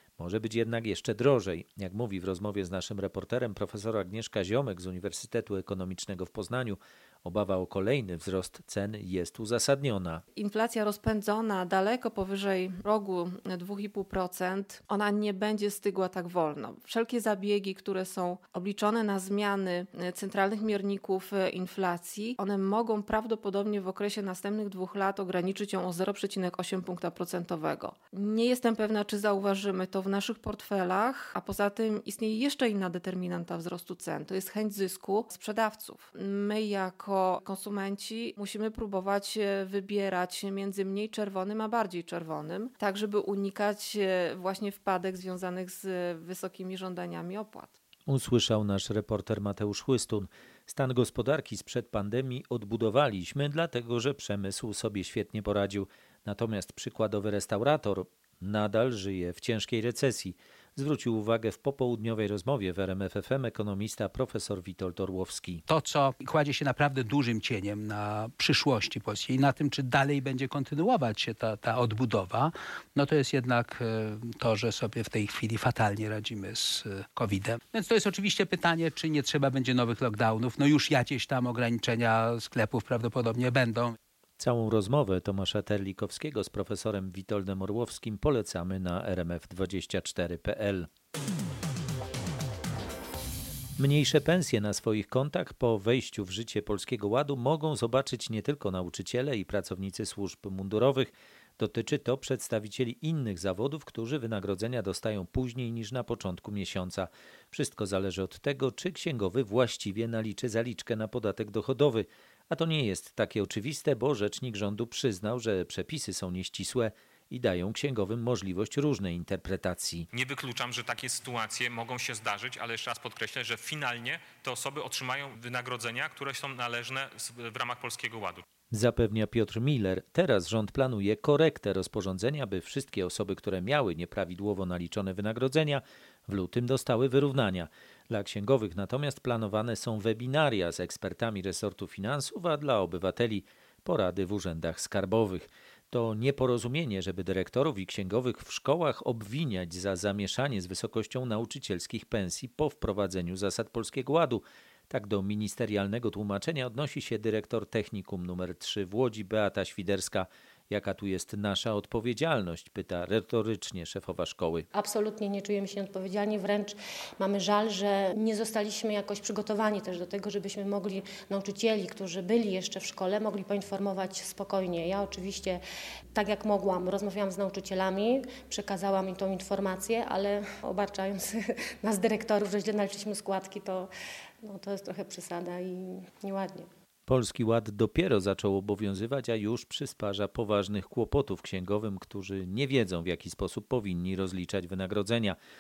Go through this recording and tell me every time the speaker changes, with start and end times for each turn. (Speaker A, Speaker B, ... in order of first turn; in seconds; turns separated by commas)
Speaker A: 0.2-10.2, Speaker B: 10.4-47.7, Speaker A: 48.1-65.6, Speaker C: 65.7-84.0, Speaker A: 84.4-90.9, Speaker A: 93.8-120.1, Speaker D: 120.3-126.0, Speaker D: 126.6-127.0, Speaker D: 127.5-128.3, Speaker A: 128.7-164.7, Speaker E: 164.7-175.6, Speaker E: 176.1-183.9, Speaker E: 184.4-186.7, Speaker A: 187.1-195.4